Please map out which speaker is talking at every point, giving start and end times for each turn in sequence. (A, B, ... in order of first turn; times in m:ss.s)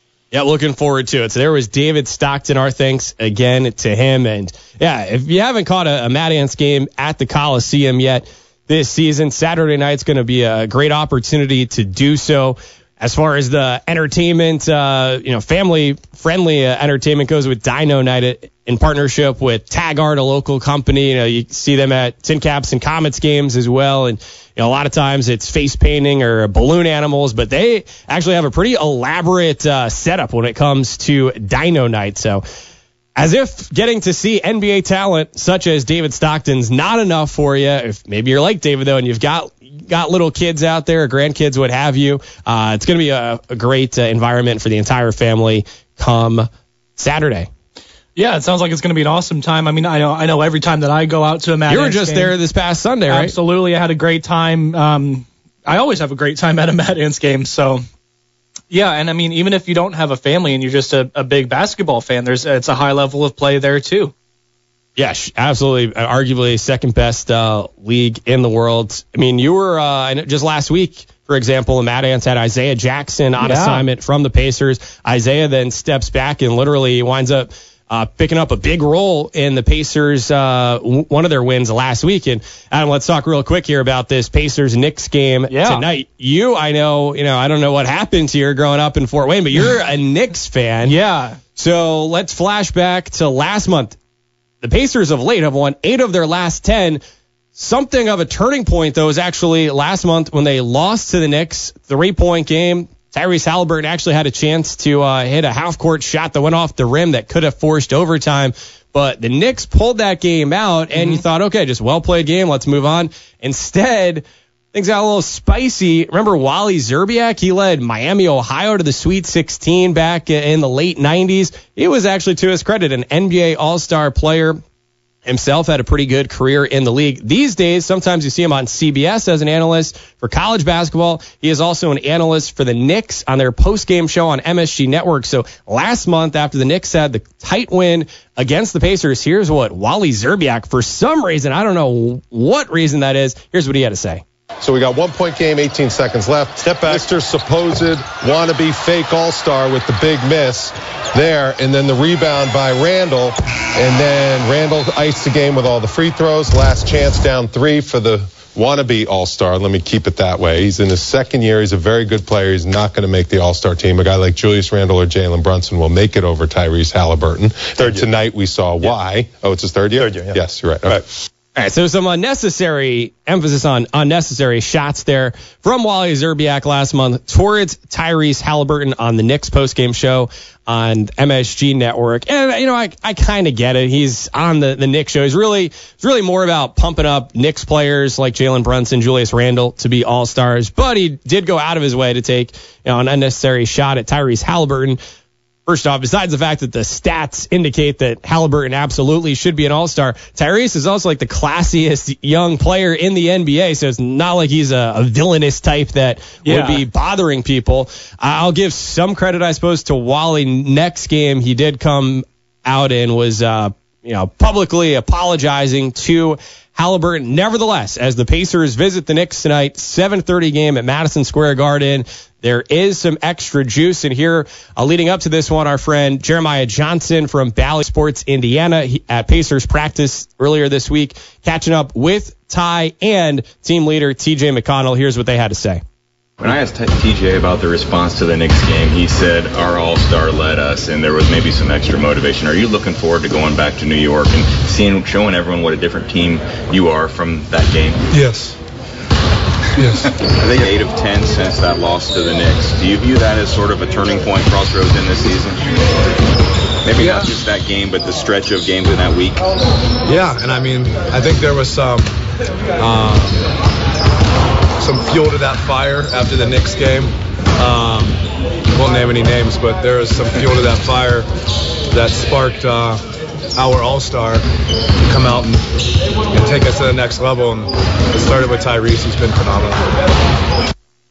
0:00.3-0:32.4 A
0:33.2-0:47.5 A
0:48.2-0:52.3 B
0:51.7-0:53.3 A
0:53.1-0:57.8 B
0:58.7-1:04.1 B
1:05.0-1:31.0 A
1:13.4-1:13.8 B
1:25.5-1:25.8 B
1:30.8-1:31.4 B
1:31.6-1:34.0 A
1:34.6-1:37.0 A
1:37.5-2:04.6 A
1:50.9-1:51.2 B
2:05.2-2:24.2 A
2:24.6-2:51.0 C
2:51.5-3:15.0 A
3:15.6-3:55.8 A
3:26.4-3:26.8 B
3:56.4-4:08.1 D
4:08.1-4:08.6 E
4:10.3-4:15.7 D
4:16.8-4:19.4 D
4:17.0-4:17.3 E
4:20.1-4:22.2 E
4:22.8-4:23.5 E
4:24.8-4:28.2 E
4:28.7-4:31.3 E
4:31.9-4:33.0 E
4:33.5-4:34.5 E
4:35.0-4:35.7 E
4:36.3-4:39.9 E